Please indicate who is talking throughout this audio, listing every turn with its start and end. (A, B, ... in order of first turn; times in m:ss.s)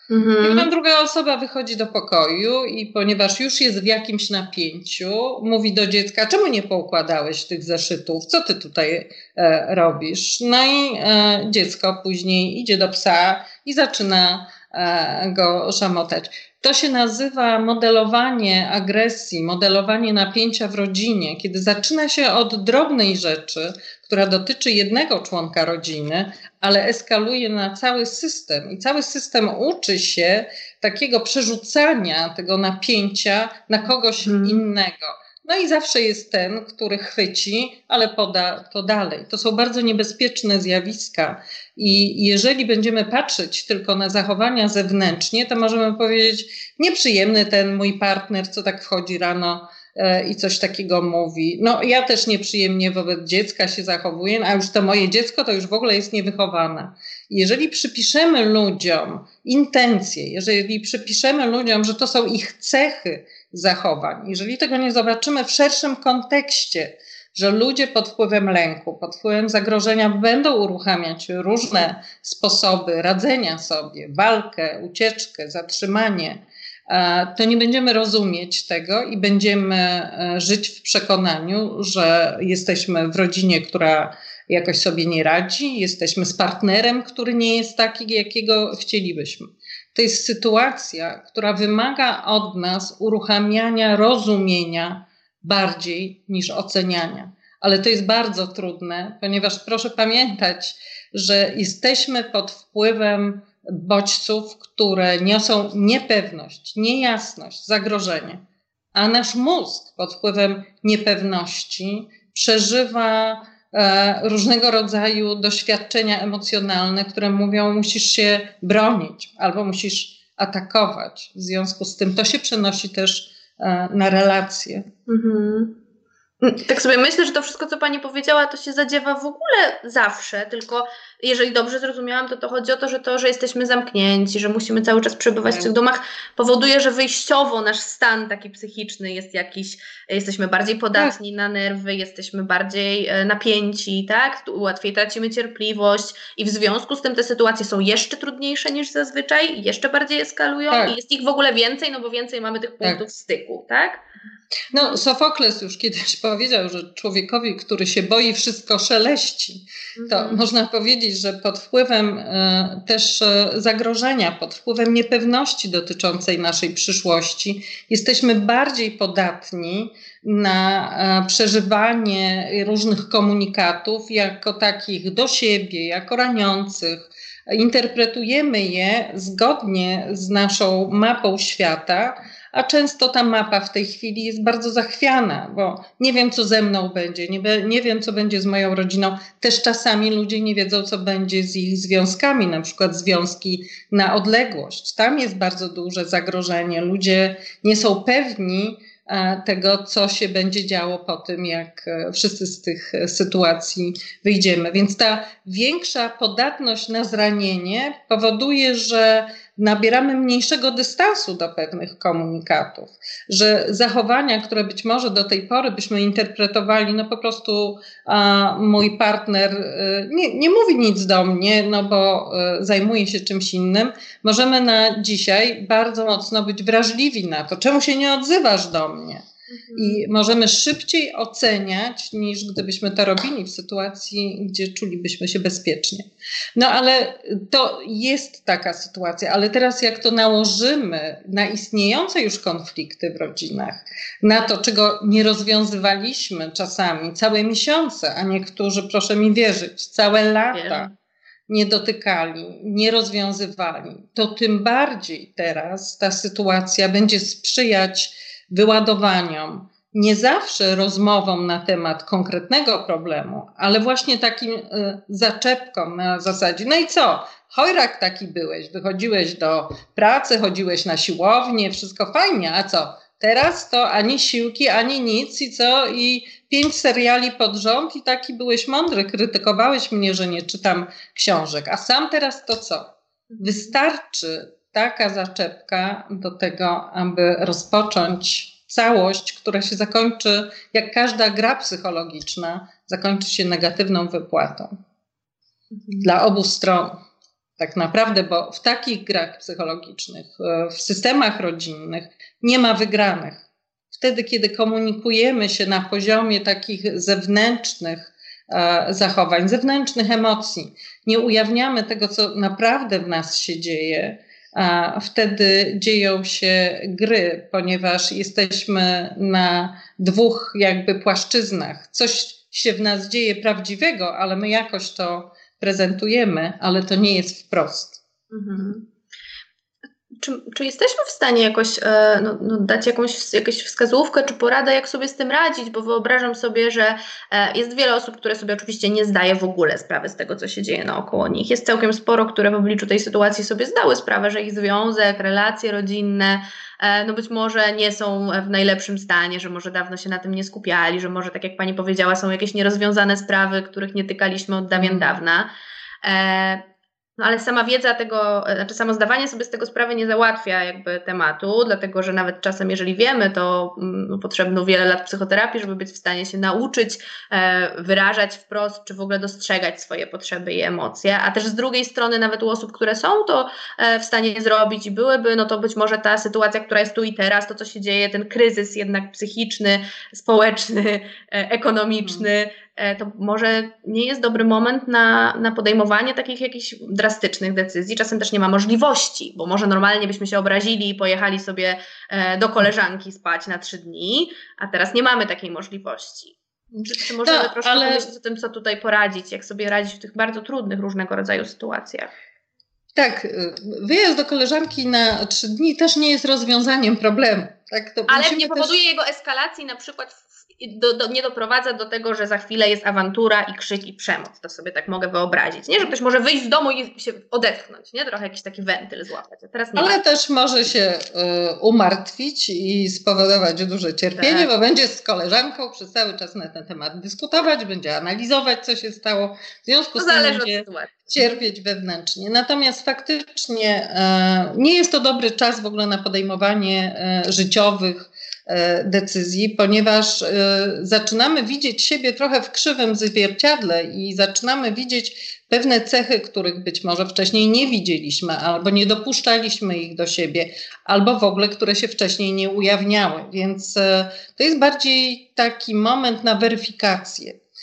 0:00.1-0:00.7 A
0:00.4-1:48.4 B
0:34.2-0:34.6 A
1:48.9-2:04.9 B
2:05.1-2:05.7 A
2:06.4-2:34.0 A
2:30.7-2:30.9 B
2:34.7-3:49.2 B
2:40.0-2:40.4 A
3:49.5-3:50.0 A
3:49.8-4:10.9 B
4:10.5-4:10.9 A
4:11.5-4:54.7 B
4:43.3-4:43.7 A
4:56.0-4:57.0 B
4:57.6-5:03.4 B
5:03.9-5:28.0 B
5:28.3-5:28.8 A
5:30.2-5:55.5 A
5:54.8-5:55.1 B
5:56.0-5:56.6 A
5:57.2-6:42.1 A
6:36.7-6:38.1 B
6:42.9-6:48.7 B
6:48.1-7:00.0 A
6:59.8-7:37.4 B
7:04.2-7:04.5 A
7:10.0-7:11.2 A